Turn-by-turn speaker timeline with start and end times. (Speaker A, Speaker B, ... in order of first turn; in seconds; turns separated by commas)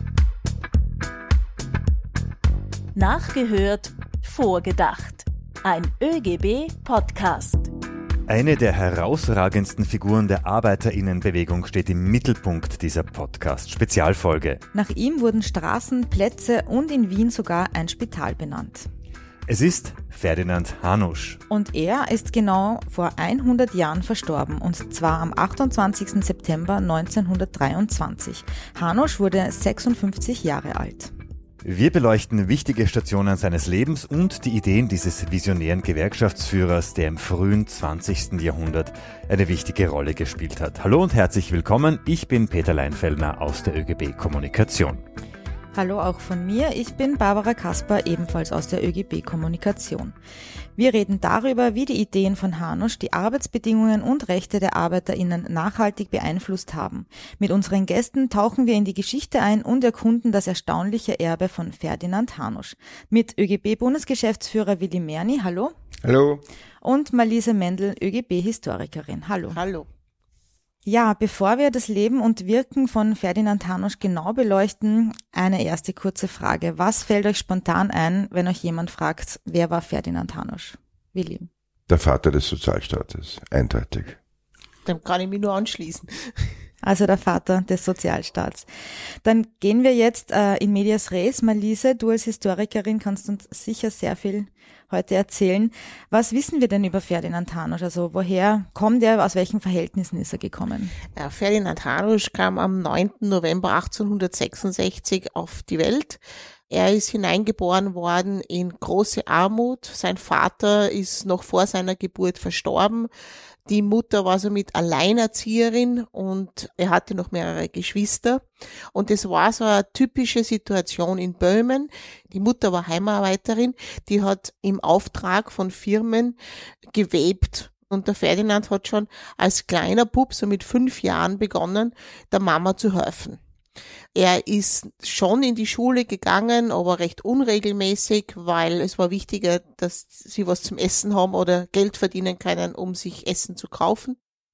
Speaker A: 3.0-7.7, Speaker B: 8.3-14.6, Speaker C: 14.7-18.9, Speaker B: 19.5-21.4, Speaker C: 21.5-31.1, Speaker B: 31.6-45.0, Speaker C: 45.8-50.1, Speaker C: 50.8-65.7, Speaker D: 66.0-66.4, Speaker C: 66.8-69.6, Speaker E: 69.5-69.9, Speaker C: 70.8-81.5, Speaker D: 81.9-84.2, Speaker E: 84.9-86.1, Speaker C: 86.8-88.7, Speaker C: 89.2-101.0, Speaker E: 101.2-113.1, Speaker E: 113.7-126.4, Speaker E: 126.9-133.4, Speaker E: 134.2-144.2